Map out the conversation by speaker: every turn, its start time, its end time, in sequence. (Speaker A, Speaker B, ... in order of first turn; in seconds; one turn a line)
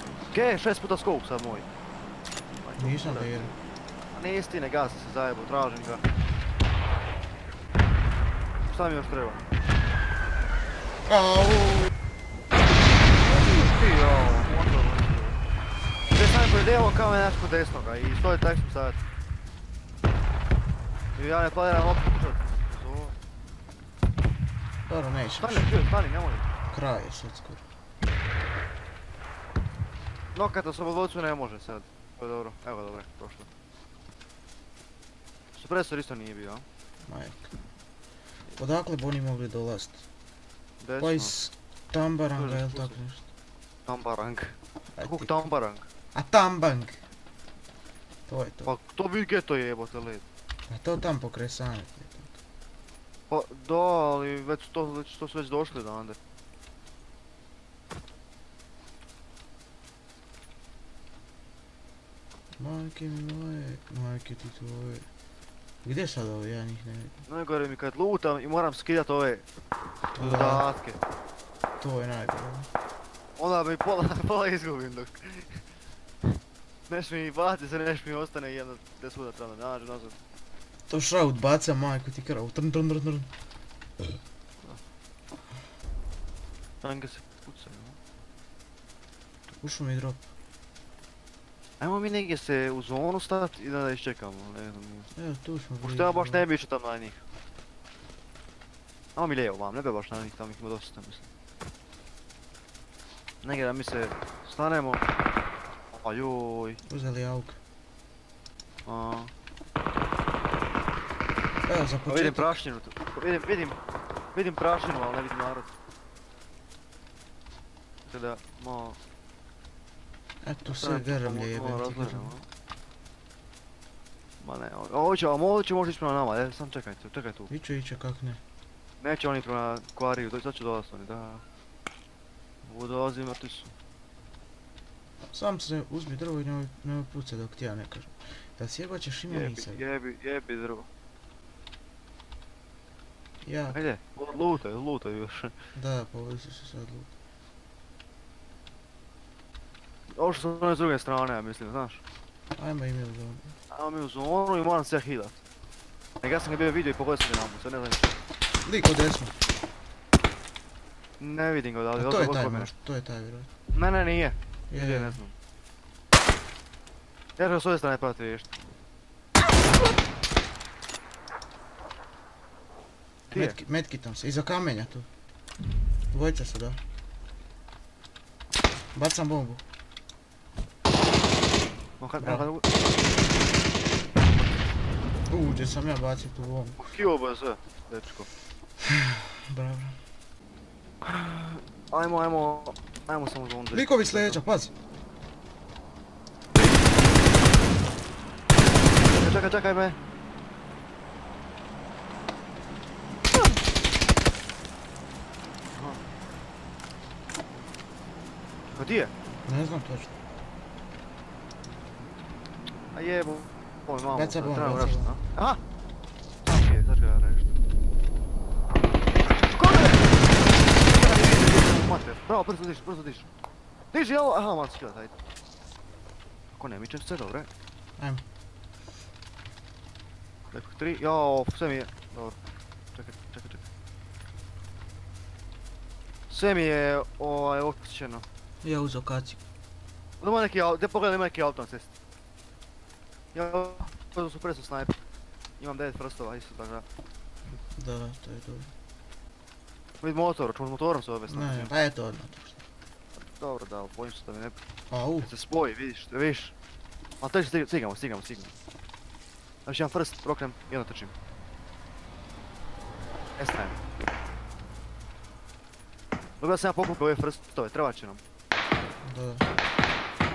Speaker A: 0.3-1.7
Speaker A: 2.5-3.5
Speaker B: 2.8-3.5
Speaker A: 4.1-6.0
Speaker A: 8.7-9.4
Speaker B: 11.1-11.9
Speaker A: 13.2-15.4
Speaker A: 16.1-19.0
Speaker A: 21.1-23.1
Speaker B: 24.9-25.7
Speaker A: 25.4-26.5
Speaker B: 26.7-27.6
Speaker A: 30.3-33.5
Speaker A: 35.5-36.6
Speaker B: 37.0-37.5
Speaker B: 38.6-40.0
Speaker A: 40.8-41.4
Speaker B: 41.0-43.3
Speaker A: 42.3-43.0
Speaker A: 43.9-45.9
Speaker B: 45.0-45.3
Speaker B: 46.1-47.0
Speaker B: 48.3-48.7
Speaker A: 48.6-50.2
Speaker B: 50.7-52.3
Speaker A: 53.3-56.2
Speaker B: 62.6-65.0
Speaker B: 65.8-67.2
Speaker A: 67.3-69.4
Speaker A: 70.1-71.0
Speaker B: 70.2-70.7
Speaker B: 71.8-72.7
Speaker A: 73.4-75.6
Speaker A: 76.9-80.2
Speaker B: 80.9-83.3
Speaker A: 86.8-88.0
Speaker B: 89.5-90.2
Speaker A: 91.8-95.1
Speaker B: 95.2-96.5
Speaker A: 95.8-97.2
Speaker A: 99.2-101.3
Speaker A: 103.4-105.0
Speaker A: 105.9-106.8
Speaker B: 106.8-107.6
Speaker A: 108.8-109.3
Speaker B: 111.6-112.5
Speaker A: 112.1-113.8
Speaker A: 114.3-115.7
Speaker A: 118.0-119.0
Speaker B: 120.4-122.3
Speaker A: 120.6-122.5
Speaker A: 124.4-127.5
Speaker B: 127.5-128.4
Speaker A: 129.0-131.4
Speaker A: 132.6-133.7
Speaker B: 135.2-139.8
Speaker A: 139.3-140.9
Speaker B: 143.4-143.8
Speaker A: 143.7-145.5
Speaker B: 145.7-147.1
Speaker A: 150.1-152.0
Speaker B: 152.5-153.5
Speaker A: 153.7-155.4
Speaker A: 156.2-158.2
Speaker B: 158.6-159.3
Speaker A: 161.2-162.7
Speaker B: 161.9-163.5
Speaker A: 163.7-165.3
Speaker B: 164.7-165.2
Speaker A: 167.4-168.5
Speaker B: 173.3-175.1
Speaker A: 173.3-173.6
Speaker B: 176.1-176.8
Speaker B: 178.9-179.6
Speaker A: 182.0-183.4
Speaker B: 182.2-182.5
Speaker B: 185.3-186.8
Speaker A: 186.8-188.3
Speaker B: 188.8-190.0
Speaker A: 191.0-194.4
Speaker B: 193.7-194.7
Speaker A: 199.1-200.0
Speaker A: 205.7-206.0
Speaker A: 208.7-209.1
Speaker B: 209.4-210.1
Speaker A: 212.9-215.6
Speaker B: 214.1-215.2
Speaker A: 216.4-217.5
Speaker A: 219.5-223.3
Speaker A: 223.9-225.1
Speaker A: 226.5-227.5
Speaker B: 228.0-228.2
Speaker A: 230.5-232.4
Speaker A: 232.9-233.7
Speaker A: 236.3-238.2
Speaker B: 238.6-239.4
Speaker A: 240.2-241.9
Speaker A: 243.3-244.9
Speaker A: 245.6-246.8
Speaker B: 247.7-248.7
Speaker A: 250.0-251.7
Speaker B: 251.3-252.6
Speaker A: 253.2-254.6
Speaker B: 254.9-255.3
Speaker A: 255.2-256.5
Speaker A: 257.2-258.5
Speaker A: 259.6-261.1
Speaker A: 263.4-263.8
Speaker A: 266.4-268.2
Speaker B: 269.0-269.5